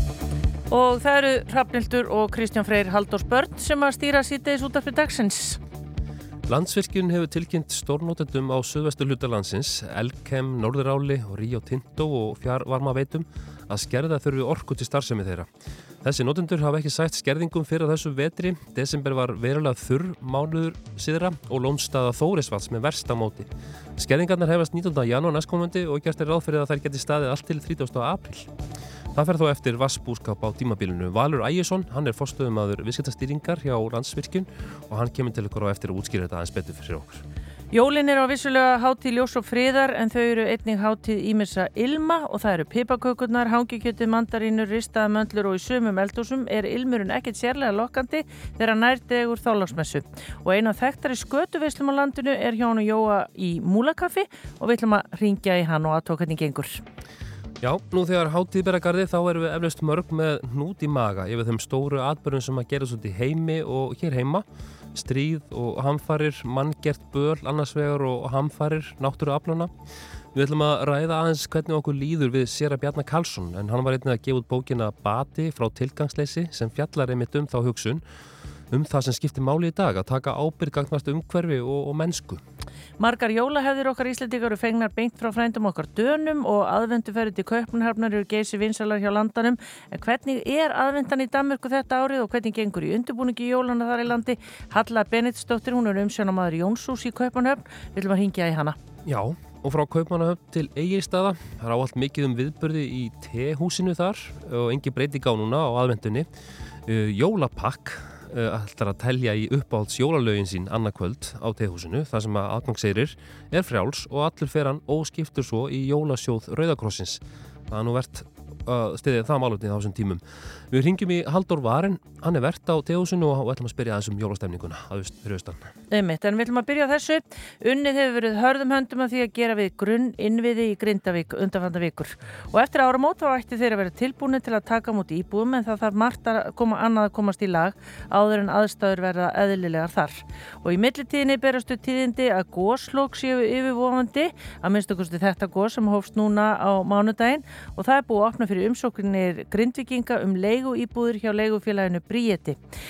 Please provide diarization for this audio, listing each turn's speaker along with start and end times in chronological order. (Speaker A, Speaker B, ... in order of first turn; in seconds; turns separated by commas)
Speaker A: 0.7-5.6, Speaker B: 6.5-15.5, Speaker B: 16.0-28.5, Speaker B: 29.1-37.2, Speaker A: 37.7-56.8, Speaker B: 57.6-69.7, Speaker B: 70.3-78.0, Speaker B: 78.7-82.4, Speaker A: 83.0-98.8, Speaker B: 99.0-106.3, Speaker B: 106.8-125.7, Speaker A: 125.9-152.6